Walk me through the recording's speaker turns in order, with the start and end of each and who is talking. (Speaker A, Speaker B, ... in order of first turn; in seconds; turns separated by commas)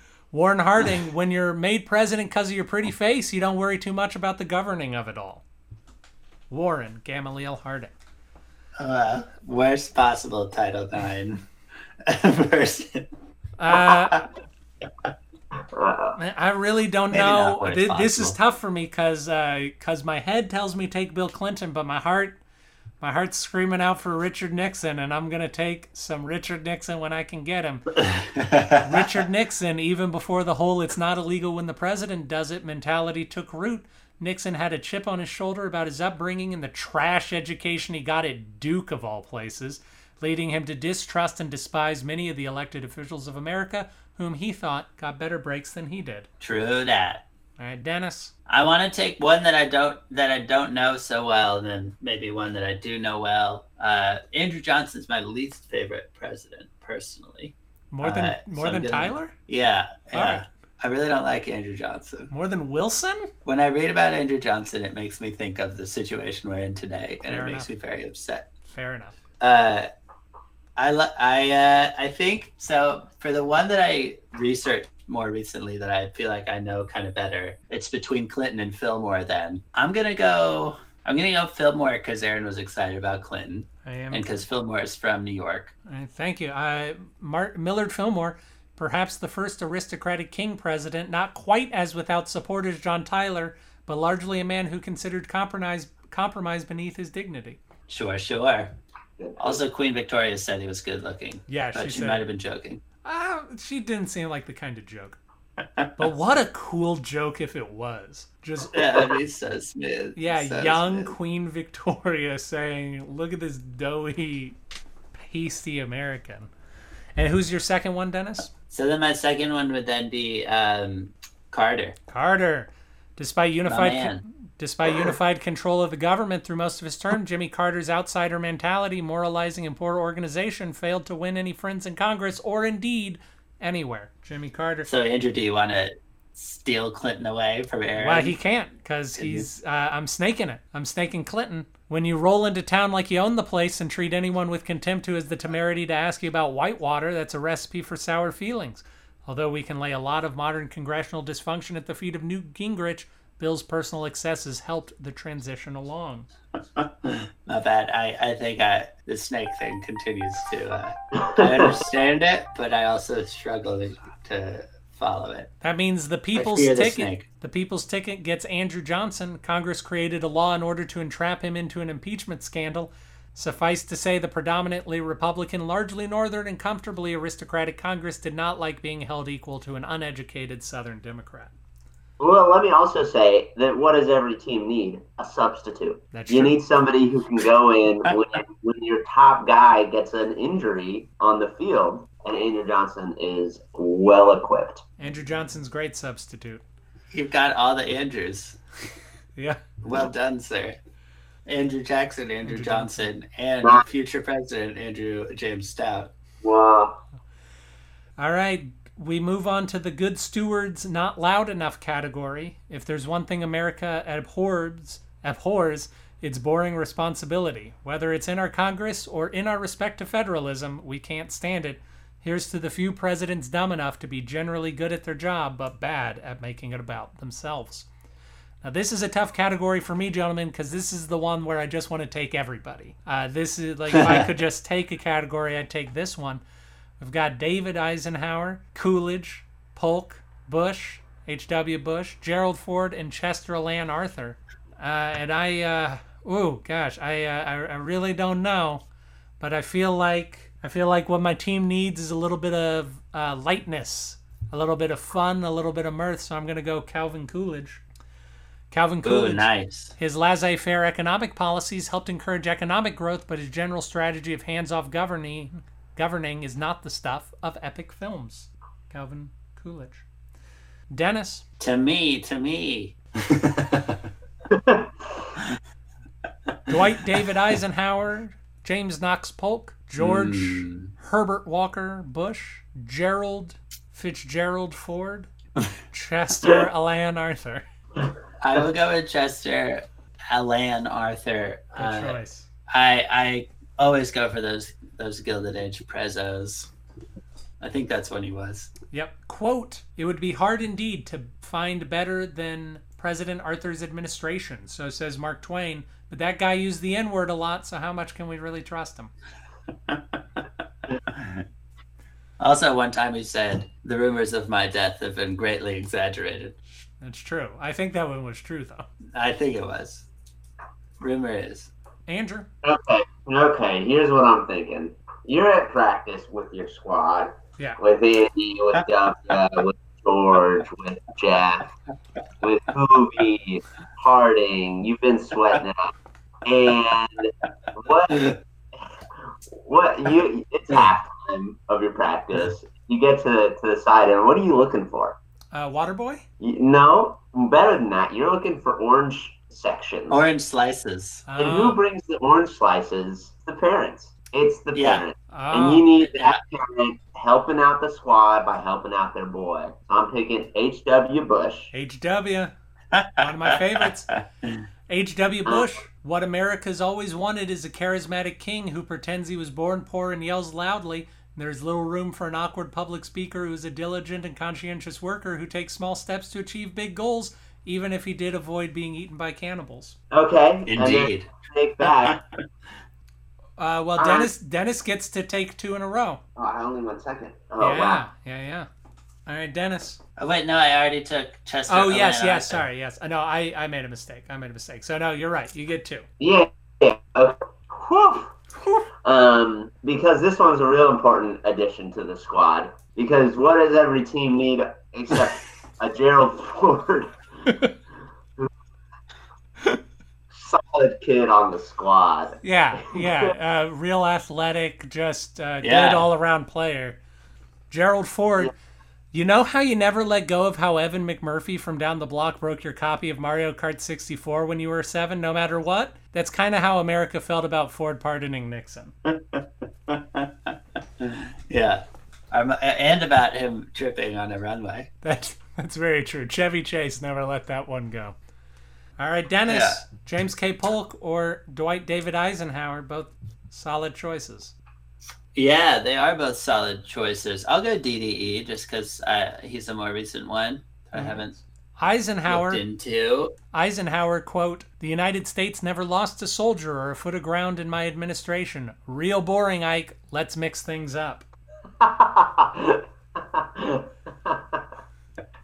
Speaker A: 0.3-5.4, Speaker A: 6.5-7.9, Speaker B: 8.8-11.5, Speaker B: 12.0-13.1, Speaker A: 13.6-14.2, Speaker B: 13.7-14.3, Speaker C: 15.7-16.2, Speaker A: 16.2-22.4, Speaker B: 17.1-18.4, Speaker A: 23.0-27.9, Speaker B: 28.0-28.9, Speaker A: 28.8-46.3, Speaker B: 46.4-47.2, Speaker A: 47.6-48.3, Speaker B: 48.5-62.3, Speaker A: 57.9-59.3, Speaker A: 60.1-60.4, Speaker A: 62.3-63.3, Speaker B: 63.4-68.5, Speaker A: 67.3-67.7, Speaker A: 68.7-69.1, Speaker B: 69.4-69.9, Speaker B: 70.8-85.7, Speaker A: 83.8-84.3, Speaker A: 85.8-97.6, Speaker B: 97.9-98.7, Speaker C: 99.2-99.6, Speaker B: 99.4-102.8, Speaker A: 101.5-102.2, Speaker A: 103.0-105.2, Speaker B: 105.6-105.9, Speaker A: 106.0-109.0, Speaker B: 108.7-111.1, Speaker A: 110.2-114.5, Speaker A: 115.2-116.5, Speaker A: 117.2-118.5, Speaker B: 118.7-122.0, Speaker A: 122.1-134.9, Speaker B: 123.7-124.2, Speaker B: 134.8-138.3, Speaker A: 137.9-156.3, Speaker B: 139.2-139.5, Speaker B: 156.8-165.5, Speaker C: 161.2-161.8, Speaker A: 165.6-181.5, Speaker B: 166.3-167.2, Speaker C: 182.2-194.8, Speaker A: 186.1-186.6, Speaker A: 195.0-196.6, Speaker B: 197.1-198.6, Speaker B: 199.8-200.8, Speaker B: 201.4-206.1, Speaker A: 202.4-203.1, Speaker C: 206.4-207.0, Speaker A: 208.2-227.9, Speaker A: 228.6-236.4, Speaker B: 233.9-234.3, Speaker A: 237.0-248.8, Speaker A: 249.4-257.8, Speaker A: 258.7-270.0, Speaker B: 259.0-259.9, Speaker A: 270.9-271.4, Speaker B: 271.6-274.0, Speaker C: 274.5-275.3, Speaker A: 276.7-285.3, Speaker B: 280.0-280.9, Speaker A: 285.9-287.6, Speaker B: 288.4-292.2, Speaker A: 291.8-292.5, Speaker B: 292.7-296.7, Speaker B: 297.6-298.7, Speaker A: 298.9-309.1, Speaker B: 309.9-310.5, Speaker B: 311.1-311.4, Speaker B: 312.4-316.6, Speaker A: 317.0-318.9, Speaker B: 319.1-320.1, Speaker B: 321.0-321.7, Speaker A: 322.1-322.5, Speaker C: 322.6-331.7, Speaker C: 332.4-335.9, Speaker C: 336.4-338.3, Speaker C: 339.6-345.2, Speaker A: 345.5-346.2, Speaker C: 346.4-350.2, Speaker B: 350.1-351.2, Speaker A: 351.3-351.8, Speaker C: 351.4-361.7, Speaker B: 354.7-355.0, Speaker A: 355.3-355.9, Speaker B: 356.0-356.4, Speaker A: 361.7-362.5, Speaker B: 362.9-364.6, Speaker A: 363.2-364.1, Speaker A: 364.9-379.9, Speaker C: 380.1-382.2, Speaker B: 380.6-381.3, Speaker B: 381.8-382.4, Speaker A: 383.6-386.2, Speaker C: 384.0-384.3, Speaker C: 386.4-388.0, Speaker A: 387.6-388.7, Speaker A: 389.2-390.0, Speaker B: 390.2-392.7, Speaker A: 391.7-396.1, Speaker C: 396.2-398.3, Speaker C: 399.0-407.2, Speaker A: 407.5-407.7, Speaker C: 410.3-413.3, Speaker A: 412.4-417.0, Speaker B: 415.6-416.1, Speaker A: 417.7-418.5, Speaker A: 419.1-428.9, Speaker B: 429.0-434.9, Speaker A: 435.0-438.1, Speaker A: 439.0-444.5, Speaker B: 439.5-439.8, Speaker B: 445.3-451.4, Speaker A: 450.9-451.2, Speaker A: 451.8-452.6, Speaker B: 452.3-453.4, Speaker A: 453.5-461.3, Speaker C: 461.8-464.6